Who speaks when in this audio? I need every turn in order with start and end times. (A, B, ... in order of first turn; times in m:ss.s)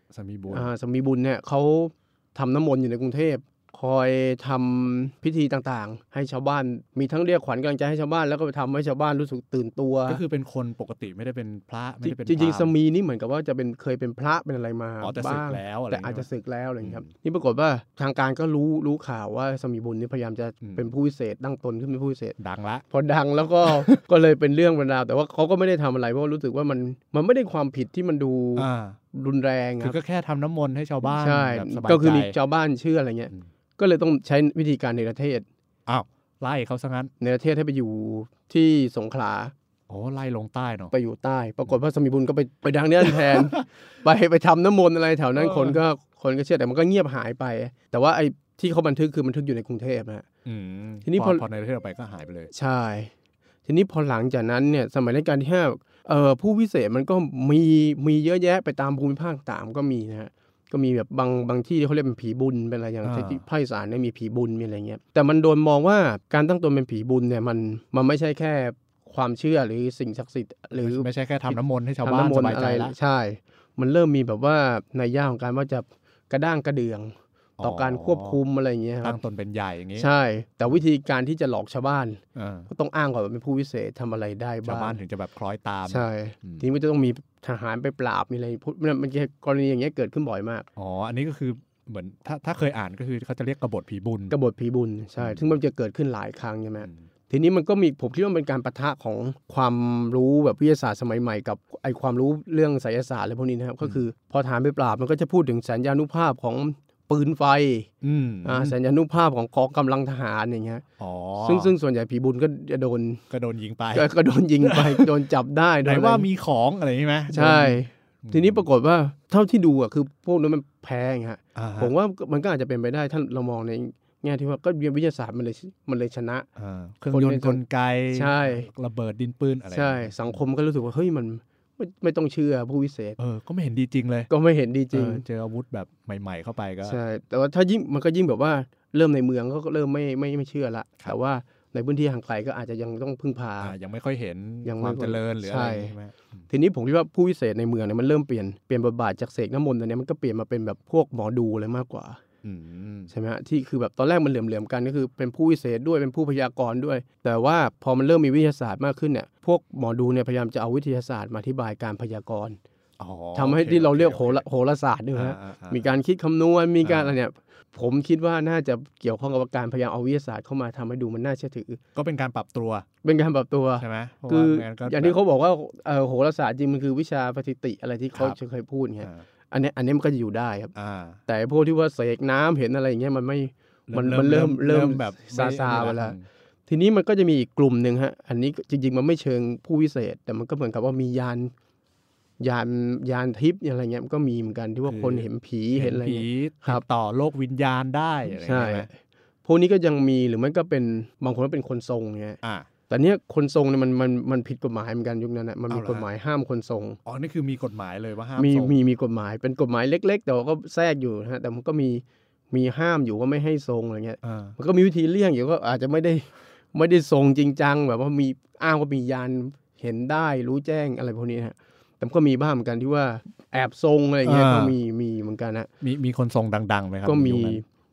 0:00.1-0:00.7 A
0:00.5-0:10.2 B
0:10.1-0:12.7 A
0:12.0-0:22.4 B
0:15.0-0:16.3 A
0:16.8-0:17.1 A
0:20.6-0:20.9 A
0:22.4-0:22.8 A
0:22.9-0:30.0 B
0:23.6-0:24.0 A
0:28.6-0:29.0 A
0:29.8-0:32.3 A
0:31.0-0:35.4 B
0:35.9-0:37.1 A
0:37.2-0:39.5 B
0:39.9-0:40.9 A
0:40.9-0:50.2 B
0:43.1-0:43.4 A
0:45.4-0:45.8 A
0:50.4-0:52.5 A
0:51.0-0:51.4 B
0:52.5-0:53.1 B
0:53.6-1:19.2 B
1:03.0-1:03.4 A
1:10.7-1:12.9 A
1:17.6-1:18.4 A
1:19.0-1:20.1 A
1:20.0-1:25.0 B
1:22.3-1:22.7 A
1:24.6-1:26.6 A
1:25.9-1:30.7 B
1:30.8-1:34.3 A
1:34.3-1:47.9 B
1:35.2-1:35.4 A
1:48.0-1:48.7 A
1:48.4-1:50.8 B
1:51.0-1:51.7 A
1:51.4-1:53.2 B
1:53.3-1:54.1 A
1:53.9-1:56.3 B
1:54.6-1:55.1 A
1:55.8-1:58.6 A
1:57.3-2:06.5 B
2:01.5-2:01.9 A
2:06.6-2:10.4 A
2:07.1-2:07.6 B
2:08.1-2:08.7 B
2:09.7-2:13.2 B
2:13.2-2:14.3 A
2:14.3-2:15.2 B
2:14.9-2:17.0 A
2:16.8-2:23.7 B
2:23.6-2:26.4 A
2:24.6-2:25.9 B
2:26.5-2:32.2 B
2:32.4-2:33.1 A
2:33.1-2:42.6 B
2:43.0-2:44.4 A
2:43.3-2:51.8 B
2:45.1-2:45.8 A
2:46.8-2:47.1 A
2:51.9-2:52.9 A
2:53.0-3:00.7 B
2:53.8-2:55.2 A
3:00.7-3:01.2 A
3:01.3-3:06.2 B
3:03.9-3:06.2 A
3:06.7-3:11.5 B
3:12.4-3:16.8 B
3:14.8-3:18.9 A
3:18.3-3:18.9 B
3:19.4-3:27.0 B
3:22.4-3:22.7 A
3:25.7-3:26.1 A
3:27.0-3:28.7 A
3:28.4-3:45.7 B
3:34.2-3:34.5 A
3:44.2-3:44.7 A
3:45.8-3:47.6 A
3:47.0-3:47.6 B